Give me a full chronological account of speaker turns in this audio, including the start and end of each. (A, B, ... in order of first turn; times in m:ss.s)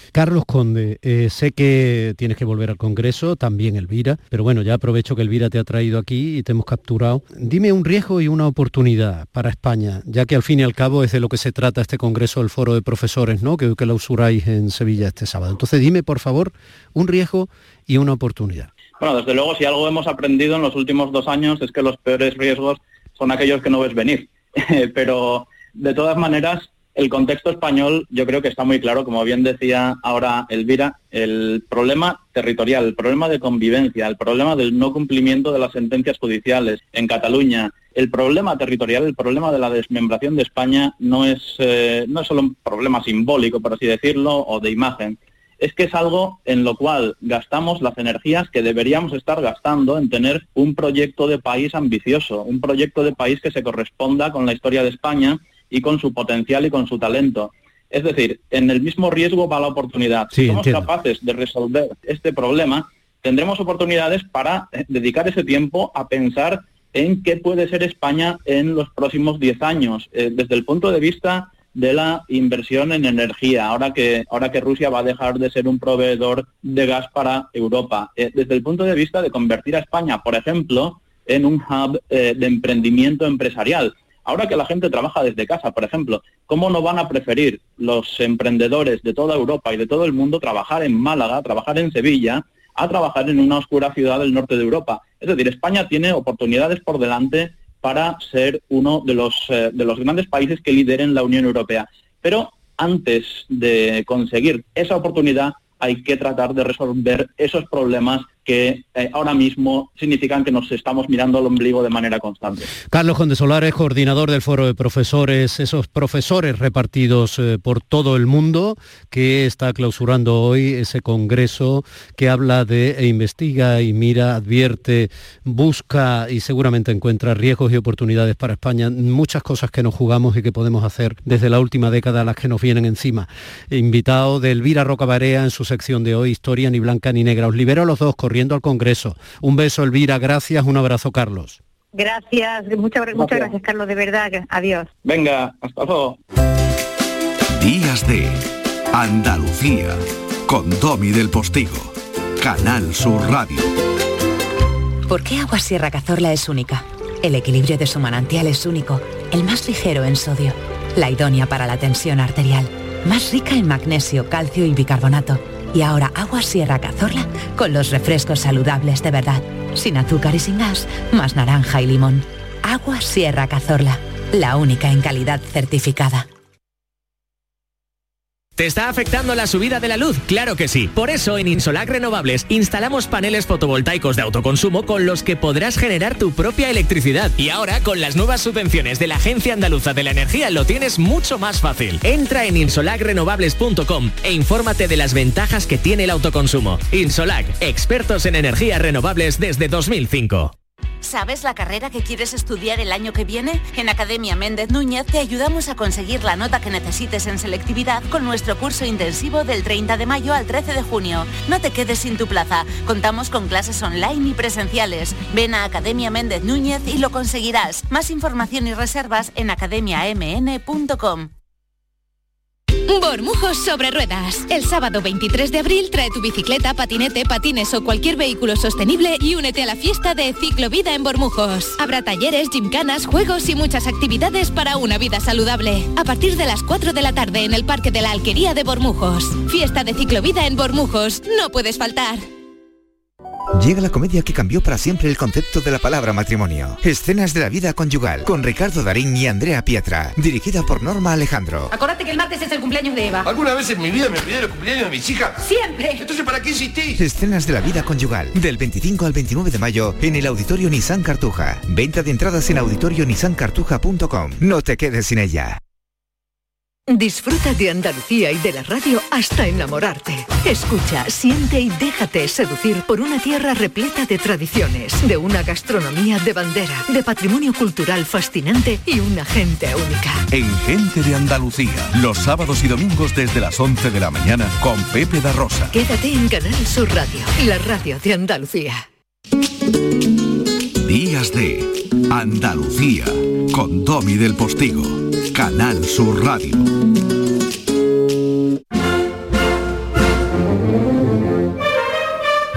0:00.1-0:18.7 A
0:19.0-1:52.7 B
1:00.3-1:00.9 A
1:52.9-2:21.6 A
2:21.9-2:24.9 C
2:23.1-2:23.5 B
2:25.0-2:26.2 B
2:27.5-2:33.7 D
2:35.1-2:56.3 E
2:58.6-3:20.5 F
3:21.0-3:41.3 G
3:42.9-4:02.2 H
4:03.6-4:11.7 I
4:11.7-4:13.3 J
4:13.2-4:15.4 K
4:15.4-4:16.0 J
4:16.0-4:17.0 K
4:17.0-4:25.6 I
4:26.9-4:40.3 L
4:40.3-4:45.8 D
4:45.7-4:48.8 L
4:50.8-4:56.7 D